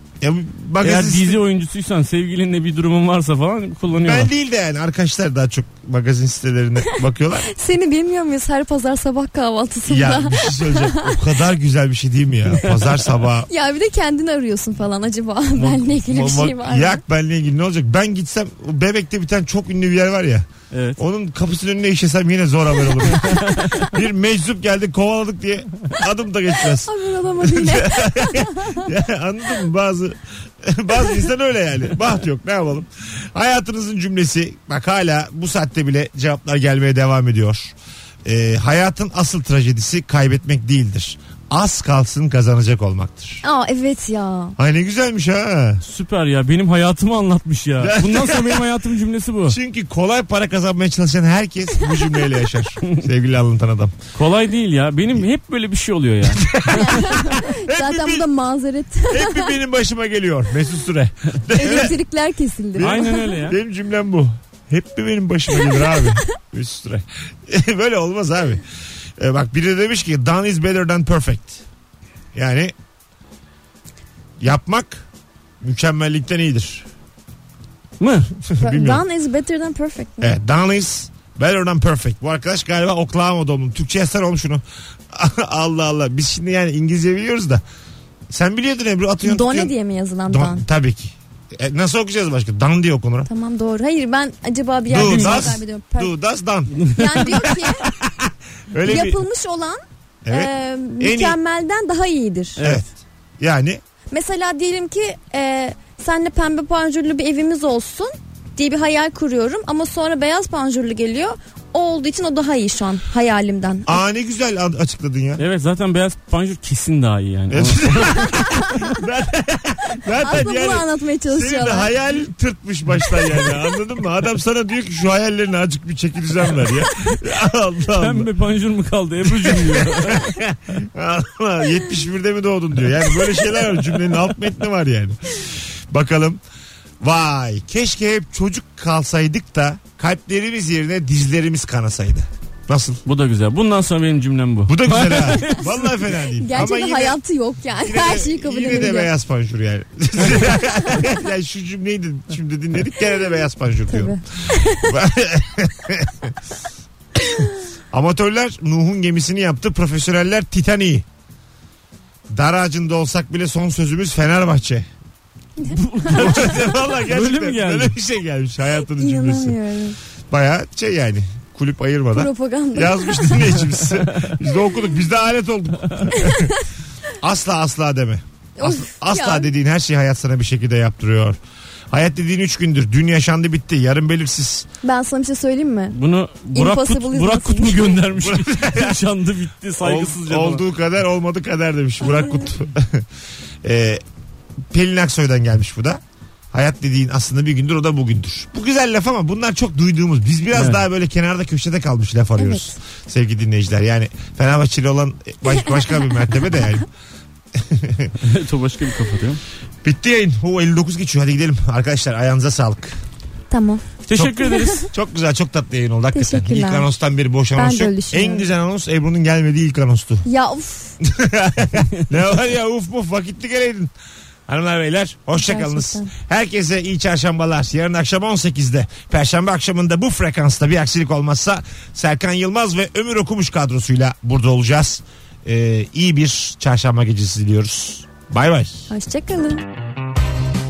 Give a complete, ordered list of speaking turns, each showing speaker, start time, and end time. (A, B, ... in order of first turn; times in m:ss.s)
0:00.2-0:01.4 A
0:00.8-0:04.3 B
0:04.0-0:07.5 A
0:07.5-0:11.2 C
0:09.9-0:13.5 A
0:13.5-0:17.0 C
0:15.6-0:43.4 A
0:20.7-0:21.0 B
0:23.2-0:23.8 B
0:26.8-0:28.9 C
0:43.4-0:44.6 C
0:44.6-0:45.8 A
0:45.8-0:49.6 B
0:47.8-0:48.7 A
0:49.5-0:54.0 A
0:54.2-0:56.6 B
0:56.3-0:58.3 A
0:56.7-0:59.5 C
0:59.1-1:02.0 A
1:01.6-1:03.4 C
1:02.8-1:08.6 A
1:02.8-1:03.6 B
1:05.7-1:06.2 C
1:09.2-1:11.6 A
1:12.3-1:12.7 A
1:14.4-1:15.0 A
1:15.6-1:16.9 A
1:18.0-1:18.3 B
1:18.4-1:19.0 A
1:18.6-1:20.3 C
1:20.2-1:27.6 A
1:28.3-1:29.7 A
1:29.2-1:30.6 C
1:30.3-1:33.3 A
1:33.3-1:36.1 C
1:34.9-1:39.2 A
1:34.9-1:35.6 B
1:36.8-1:37.3 B
1:36.9-1:37.9 C
1:38.8-1:42.6 C
1:40.2-1:41.4 A
1:42.6-1:42.9 B
1:42.6-1:42.9 A
1:43.4-1:43.8 A
1:44.1-1:54.0 C
1:53.9-1:55.4 A
1:55.4-1:58.2 B
1:57.5-2:08.3 A
2:00.1-2:01.9 C
2:08.0-2:10.4 B
2:09.3-2:16.4 A
2:17.0-2:23.0 A
2:23.0-2:26.0 B
2:24.7-2:27.2 A
2:26.4-2:29.1 C
2:27.8-2:36.4 A
2:33.9-2:34.9 C
2:37.2-2:41.0 A
2:42.3-2:44.9 A
2:45.6-2:48.0 B
2:46.0-2:49.6 A
2:48.9-2:50.0 C
2:50.3-2:56.6 A
2:52.1-2:53.4 C
2:56.1-2:56.6 C
2:57.2-3:01.4 A
2:58.6-2:59.5 C
3:01.9-3:04.7 A
3:04.8-3:06.0 C
3:05.9-3:10.6 B
3:06.5-3:08.0 C
3:08.2-3:09.0 A
3:09.8-3:13.1 A
3:13.6-3:14.0 A
3:14.7-3:16.0 A
3:16.5-3:26.9 A
3:20.5-3:20.8 B
3:22.4-3:22.8 C
3:27.6-3:28.1 A
3:28.2-3:29.4 B
3:29.8-3:33.0 A
3:33.5-3:33.9 C
3:34.1-3:34.9 B
3:34.2-3:40.2 A
3:34.4-3:34.9 C
3:36.1-3:36.9 C
3:37.6-3:38.4 C
3:40.2-3:41.0 C
3:41.0-3:43.9 A
3:44.5-3:58.9 A
3:45.4-3:46.1 C
3:58.9-3:59.6 C